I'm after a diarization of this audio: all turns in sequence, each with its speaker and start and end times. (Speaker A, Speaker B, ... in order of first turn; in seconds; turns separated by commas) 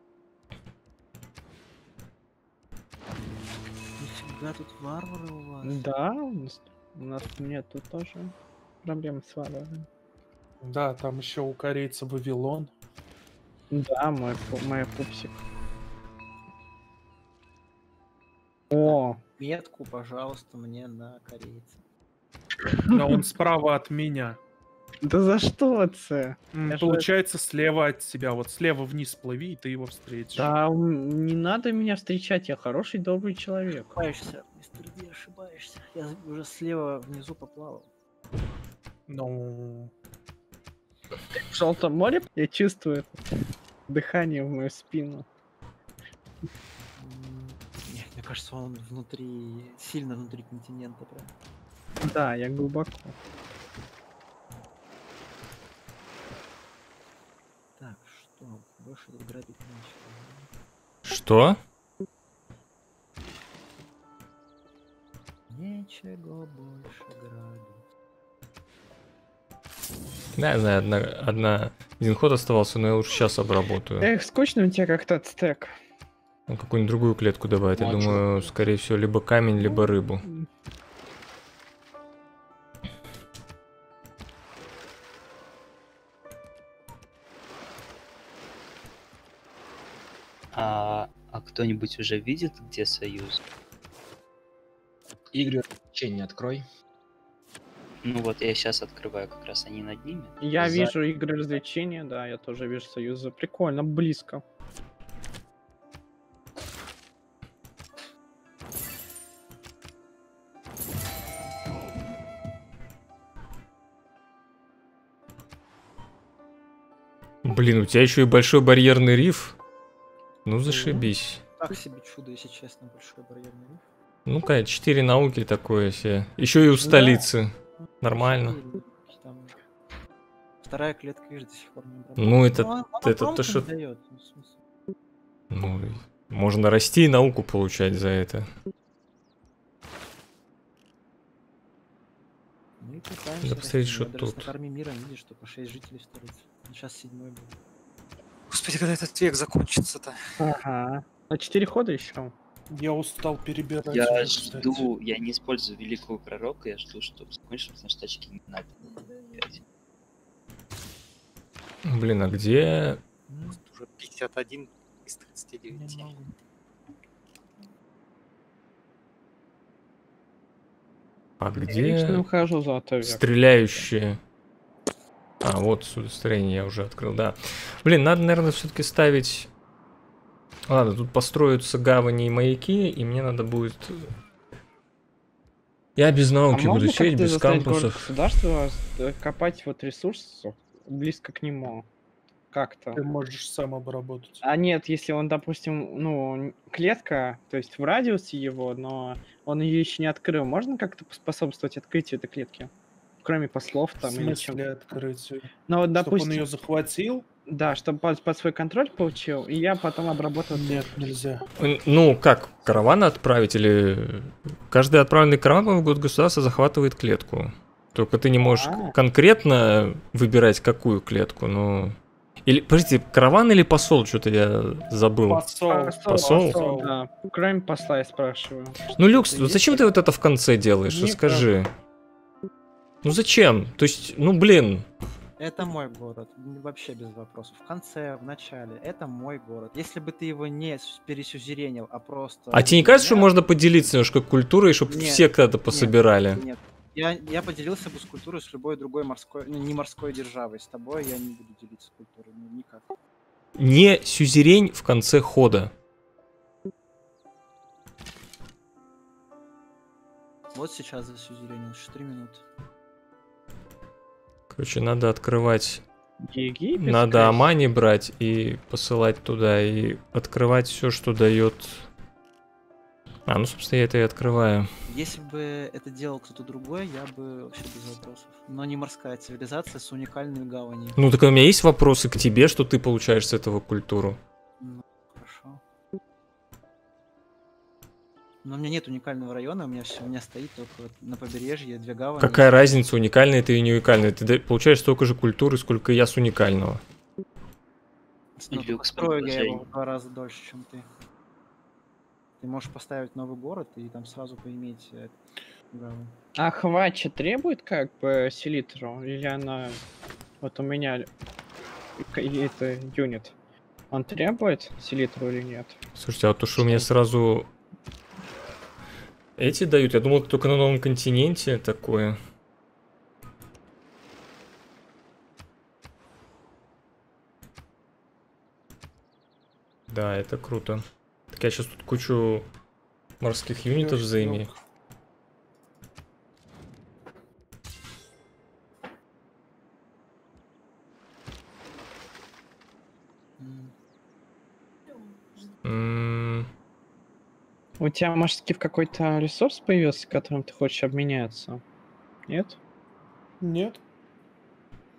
Speaker A: 4.0-5.8, Speaker B: 5.6-9.8, Speaker C: 10.6-12.7, Speaker B: 13.7-15.4, Speaker B: 18.7-19.2, Speaker A: 18.8-21.8, Speaker B: 22.6-23.2, Speaker C: 22.9-24.4, Speaker B: 25.0-27.1, Speaker C: 26.5-30.5, Speaker B: 30.3-34.0, Speaker A: 33.9-37.9, Speaker C: 39.1-39.9, Speaker B: 41.3-43.2, Speaker B: 43.9-45.2, Speaker A: 47.0-51.3, Speaker B: 52.0-53.1, Speaker A: 57.8-60.5, Speaker D: 61.0-61.6, Speaker A: 65.5-67.8, Speaker D: 70.3-74.1, Speaker B: 74.0-75.7, Speaker D: 76.5-80.2, Speaker E: 77.8-78.4, Speaker B: 79.6-80.5, Speaker F: 90.5-93.4, Speaker E: 95.3-96.6, Speaker F: 98.0-100.4, Speaker B: 100.4-104.4, Speaker E: 100.6-100.9, Speaker D: 117.4-119.5, Speaker D: 120.5-121.4, Speaker A: 120.7-123.9, Speaker D: 124.2-128.6, Speaker B: 126.8-127.3, Speaker A: 127.8-129.6, Speaker A: 130.6-134.6, Speaker D: 132.2-133.7, Speaker D: 135.5-138.5, Speaker A: 142.8-147.6, Speaker D: 143.4-144.5, Speaker G: 148.5-150.2, Speaker B: 150.4-152.3, Speaker C: 152.7-154.9, Speaker F: 153.9-159.6, Speaker D: 161.8-163.0, Speaker A: 163.3-163.6, Speaker G: 163.5-166.1, Speaker A: 165.7-166.3, Speaker D: 171.4-172.2, Speaker B: 171.6-173.9, Speaker D: 173.0-174.2, Speaker D: 175.4-179.5, Speaker D: 180.7-184.1, Speaker D: 185.9-188.1, Speaker B: 186.5-191.8, Speaker B: 192.5-193.0, Speaker C: 192.9-194.4, Speaker B: 194.4-202.7, Speaker B: 203.2-204.6, Speaker C: 204.0-207.2, Speaker B: 205.7-206.5, Speaker B: 207.5-210.9, Speaker C: 210.5-211.5, Speaker D: 211.6-226.7, Speaker B: 218.4-218.9, Speaker C: 225.2-226.9, Speaker B: 225.7-228.8, Speaker D: 228.9-231.7, Speaker A: 229.0-229.8, Speaker C: 230.9-231.5, Speaker D: 233.0-234.8, Speaker A: 235.4-243.3, Speaker D: 242.5-246.4, Speaker A: 244.9-252.9, Speaker D: 253.6-255.7, Speaker A: 260.5-262.4, Speaker D: 264.5-265.8, Speaker B: 266.2-267.5, Speaker D: 266.8-271.9, Speaker D: 273.3-274.7, Speaker A: 274.9-281.0, Speaker D: 281.0-284.2, Speaker A: 284.6-285.6, Speaker A: 288.4-292.7, Speaker D: 292.2-296.8, Speaker A: 298.4-300.9, Speaker F: 298.5-299.6, Speaker A: 302.4-305.2, Speaker A: 305.7-306.1, Speaker B: 306.4-309.8, Speaker B: 310.4-311.1, Speaker B: 312.0-313.3, Speaker B: 313.9-315.8, Speaker D: 315.9-317.5, Speaker B: 316.6-316.9, Speaker D: 319.4-322.2, Speaker D: 329.9-332.5, Speaker D: 333.2-334.5, Speaker C: 333.6-334.6, Speaker A: 343.4-343.7, Speaker D: 345.6-346.5, Speaker B: 347.8-351.6, Speaker B: 352.3-352.6, Speaker C: 353.4-353.8